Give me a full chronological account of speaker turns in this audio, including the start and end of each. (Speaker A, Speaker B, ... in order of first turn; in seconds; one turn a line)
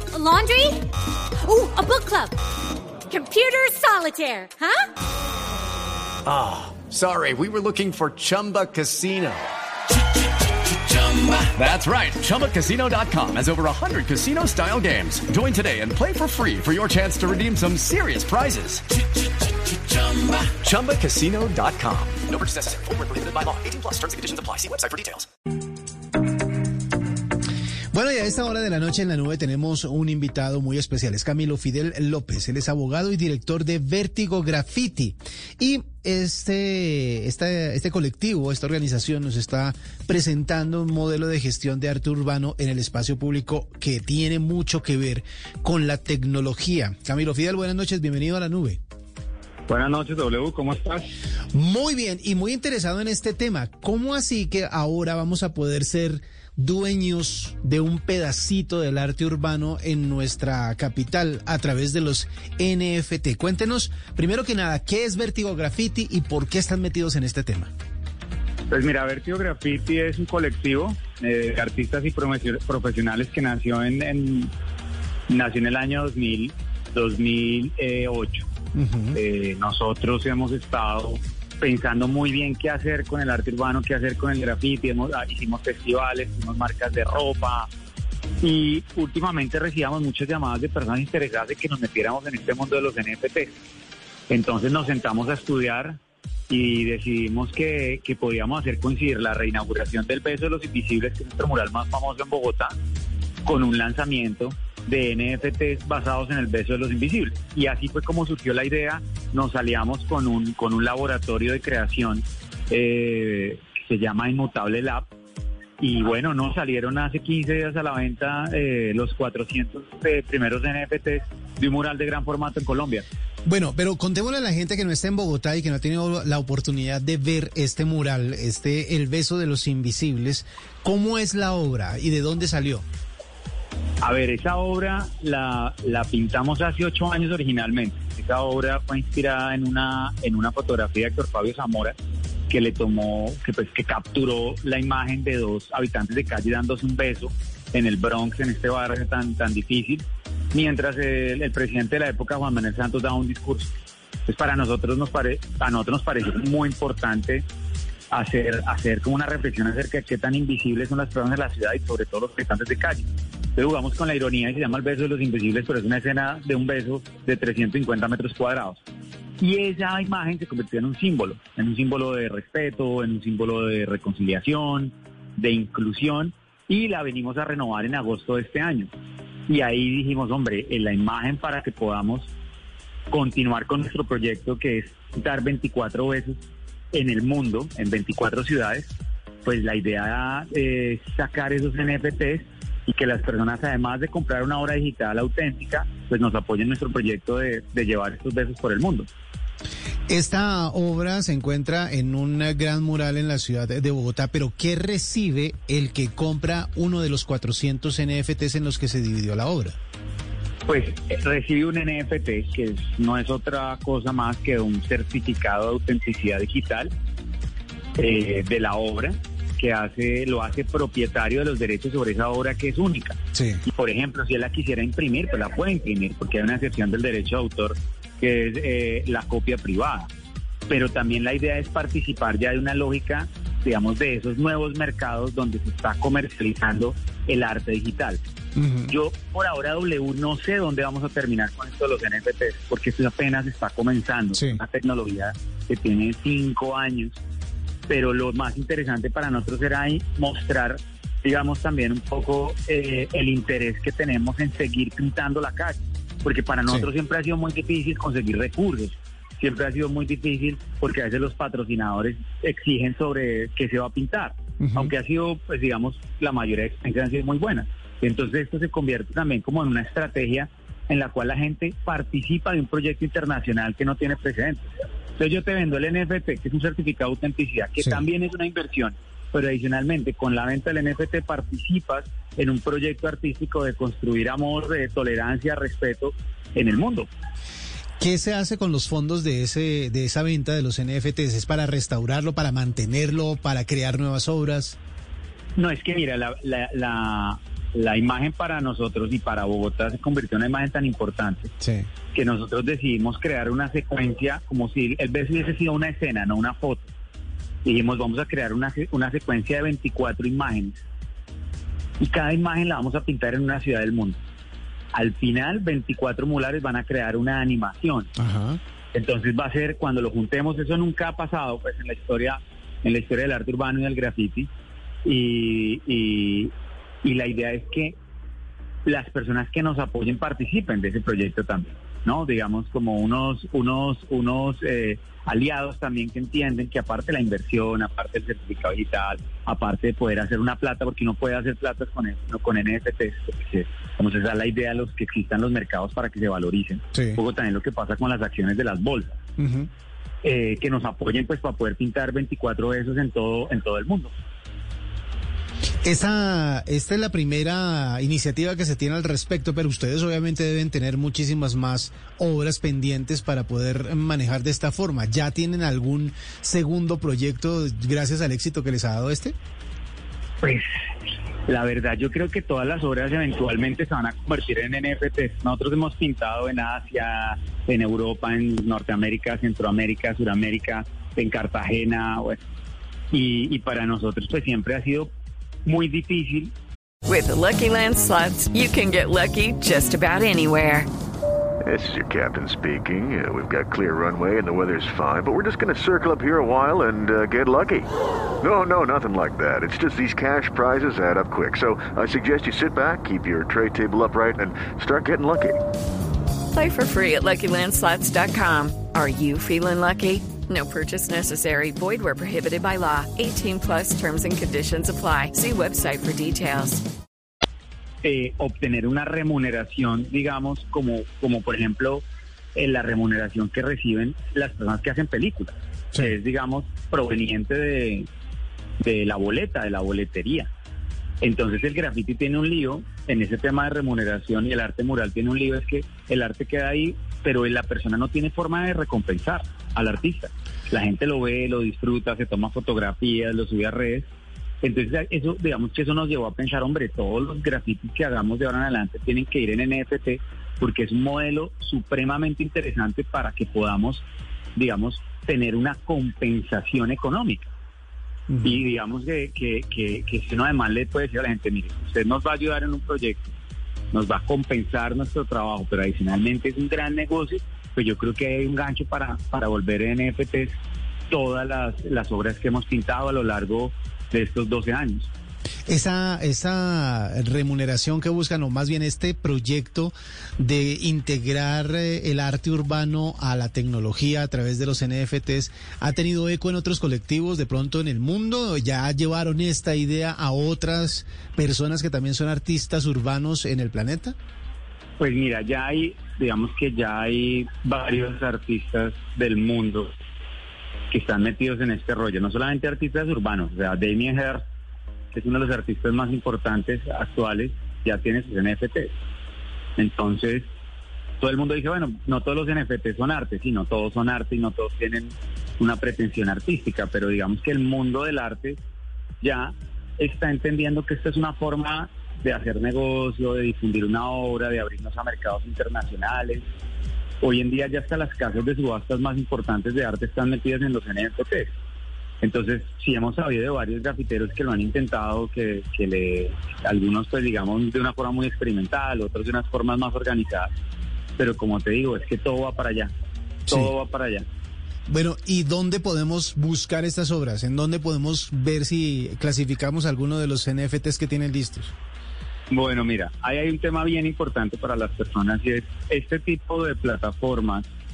Speaker A: 0.1-0.8
Speaker A: 1.4-2.3
Speaker A: 3.1-4.9
Speaker B: 6.2-9.5
Speaker B: 10.7-18.8
Speaker B: 19.6-25.3
Speaker C: 27.9-48.8
Speaker D: 49.7-51.1
Speaker C: 51.5-67.7
Speaker D: 68.7-74.5
Speaker D: 75.3-78.5
Speaker C: 78.7-79.2
Speaker D: 79.1-87.7
Speaker D: 88.4-93.5
Speaker D: 94.3-102.7
Speaker D: 103.5-115.1
Speaker D: 115.8-123.0
Speaker C: 123.5-132.8
Speaker D: 134.0-141.9
Speaker D: 142.5-153.7
Speaker D: 154.3-157.4
Speaker D: 158.1-168.8
Speaker D: 169.4-178.9
Speaker D: 179.5-182.3
Speaker D: 183.1-186.4
Speaker D: 186.9-188.9
Speaker D: 189.4-199.1
Speaker C: 200.1-209.8
Speaker D: 210.7-216.9
Speaker D: 218.0-230.1
Speaker D: 230.7-238.2
Speaker C: 238.6-238.9
Speaker D: 238.9-247.2
Speaker C: 244.3-244.6
Speaker D: 247.9-287.1
Speaker C: 264.6-264.9
Speaker C: 288.0-294.8
Speaker D: 295.6-301.5
Speaker C: 301.6-301.9
Speaker D: 302.1-306.9
Speaker D: 307.6-310.8
Speaker D: 312.0-314.2
Speaker D: 314.9-318.1
Speaker C: 318.2-318.6
Speaker D: 318.9-324.5
Speaker D: 325.0-326.5
Speaker D: 327.0-327.9
Speaker D: 328.9-349.2
Speaker C: 349.4-349.7
Speaker D: 350.2-354.1
Speaker C: 355.8-369.3
Speaker D: 370.4-370.6
Speaker D: 371.5-382.4
Speaker D: 383.1-385.1
Speaker D: 385.6-386.5
Speaker E: 387.1-390.9
Speaker F: 391.6-397.9
Speaker F: 398.4-405.6
Speaker E: 406.5-416.8
Speaker D: 418.0-422.0
Speaker D: 422.5-428.1
Speaker D: 428.8-430.5
Speaker D: 431.2-444.1
Speaker D: 444.6-454.0
Speaker D: 454.6-457.5
Speaker C: 458.3-458.6
Speaker D: 458.4-463.3
Speaker D: 463.9-470.5
Speaker D: 471.1-475.1
Speaker C: 475.7-494.1
Speaker D: 495.0-499.9
Speaker D: 500.9-504.4
Speaker D: 505.1-508.9
Speaker D: 509.8-510.5
Speaker D: 511.2-518.6
Speaker D: 519.2-526.4
Speaker D: 527.2-531.5
Speaker D: 532.2-540.5
Speaker D: 541.2-542.9
Speaker D: 543.5-544.2
Speaker C: 544.9-551.7
Speaker D: 552.5-557.7